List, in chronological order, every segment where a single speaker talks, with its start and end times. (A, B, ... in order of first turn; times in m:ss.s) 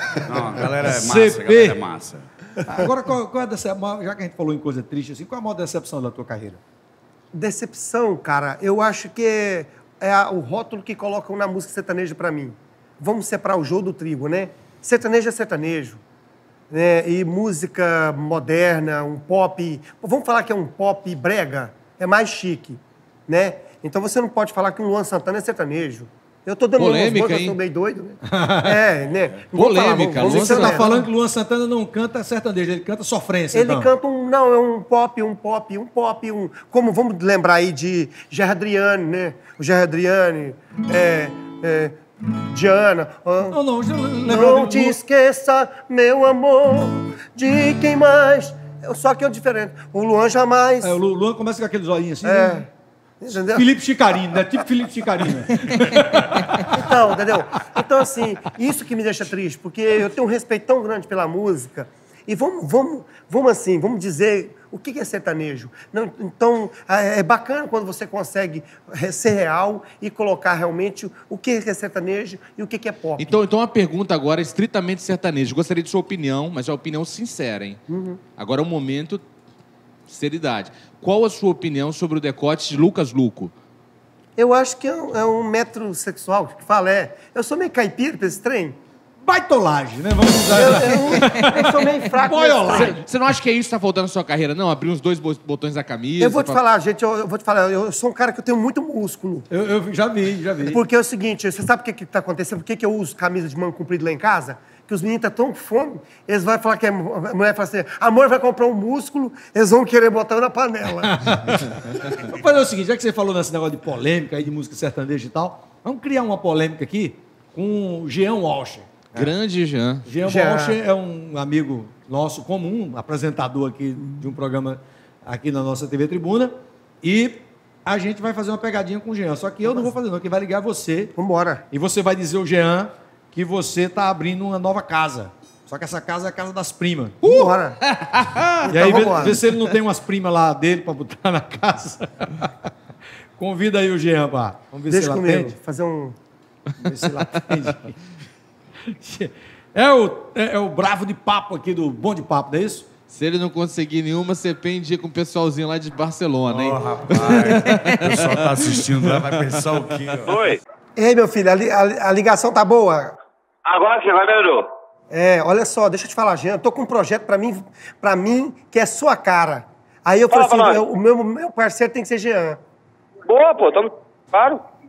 0:00.2-0:02.2 A
0:00.8-0:01.8 B
0:02.6-0:06.6 B
0:07.3-0:16.0 C
0:16.7-0:31.0 C
0:26.8-0:27.6 D
0:28.3-0:28.8 B
0:29.5-0:31.0 D
0:30.2-0:33.9 B
0:33.5-0:42.0 C
0:42.5-0:43.6 C
0:43.5-0:45.0 B
0:44.2-0:51.0 C
0:50.8-0:52.6 B
0:52.2-0:52.7 C
0:53.2-0:53.7 C
0:53.5-0:56.8 B
0:56.7-1:13.4 C
1:13.2-1:17.8 D
1:17.9-1:18.2 C
1:18.4-1:19.2 D
1:20.1-1:23.5 D
1:24.4-1:28.8 C
1:29.2-1:33.1 B
1:30.5-1:33.0 C
1:32.7-1:36.6 D
1:36.2-1:39.5 C
1:39.5-1:40.8 B
1:40.6-1:51.1 C
1:51.1-1:59.3 B
1:59.1-2:00.0 D
2:00.0-2:11.1 B
2:00.2-2:00.8 C
2:11.2-2:11.6 C
2:11.7-2:17.2 B
2:17.2-2:17.8 C
2:18.0-2:18.6 D
2:18.6-2:19.4 C
2:18.7-2:22.7 B
2:23.4-2:25.5 B
2:24.9-2:26.2 C
2:26.8-2:28.0 B
2:28.9-2:32.8 B
2:33.1-2:38.8 D
2:36.5-2:40.3 A
2:40.2-2:40.6 E
2:41.0-2:43.2 C
2:43.6-2:44.7 E
2:45.1-2:52.6 C
2:50.3-2:50.8 E
2:53.2-2:54.6 E